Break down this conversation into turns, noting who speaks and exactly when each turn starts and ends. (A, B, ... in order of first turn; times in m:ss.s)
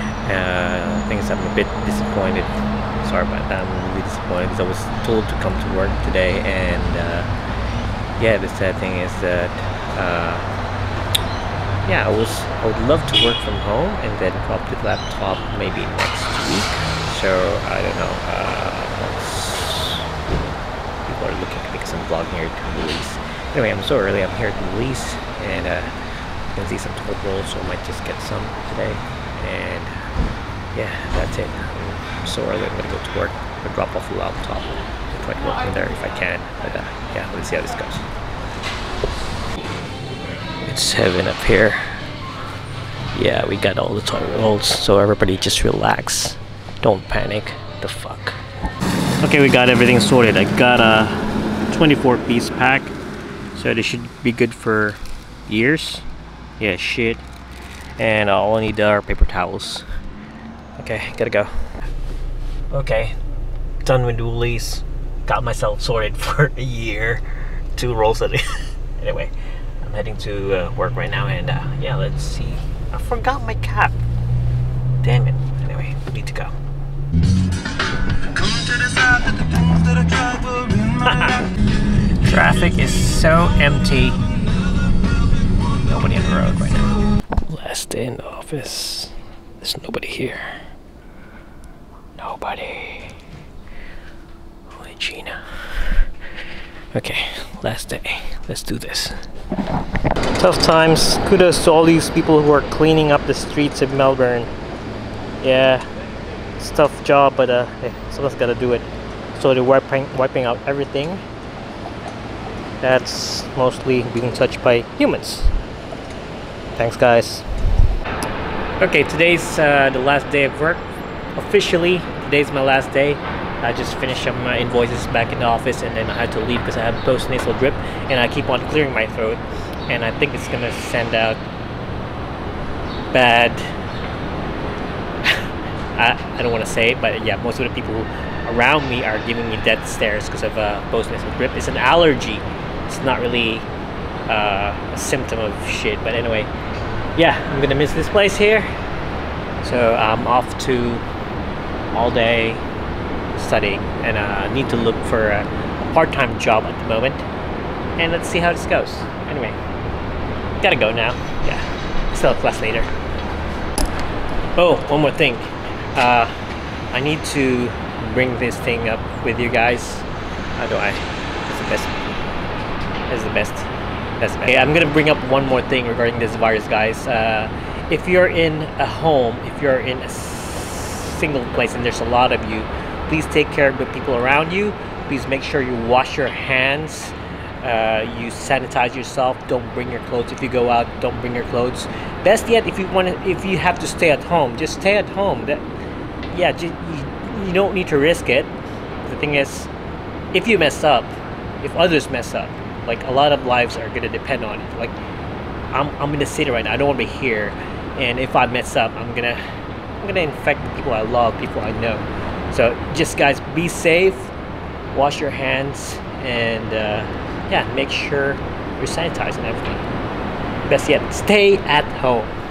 0:00.2-0:07.3 A
0:08.2-0:10.5 A
0:11.8-0:20.1 A
0:21.1-0:26.0 A
0:26.5-0:30.0 A
0:30.7-0:38.1 A
0:40.5-0:42.0 A
0:43.1-0:48.4 A
0:49.2-0:53.0 A
0:53.5-0:56.1 A
0:56.6-0:57.2 A
0:58.0-0:59.9 A
1:00.8-1:01.6 A
1:02.7-1:03.2 A
1:03.8-1:14.0 A
1:15.0-1:16.5 A
1:18.4-1:21.5 A
1:22.2-1:24.2 A
1:25.8-1:30.6 A
1:32.2-1:33.2 A
1:34.7-1:36.1 A
1:36.9-1:39.3 A
1:40.4-1:44.5 A
1:45.4-1:45.9 A
1:46.6-1:51.2 A
1:52.8-1:55.5 A
1:56.8-1:57.5 A
1:58.8-2:11.4 A
2:13.1-2:13.7 A
2:15.2-2:23.7 A
2:24.3-2:26.5 A
2:27.2-2:28.7 A
2:29.6-2:31.0 A
2:31.9-2:32.6 A
2:33.3-2:37.3 A
2:38.0-2:39.6 A
2:40.6-2:42.9 A
2:44.6-2:46.4 A
2:46.9-2:52.0 A
2:53.1-3:15.7 A
3:16.3-3:19.7 A
3:20.3-3:25.0 A
3:25.7-3:29.4 A
3:30.0-3:34.3 A
3:34.9-3:39.9 A
3:40.6-3:42.3 A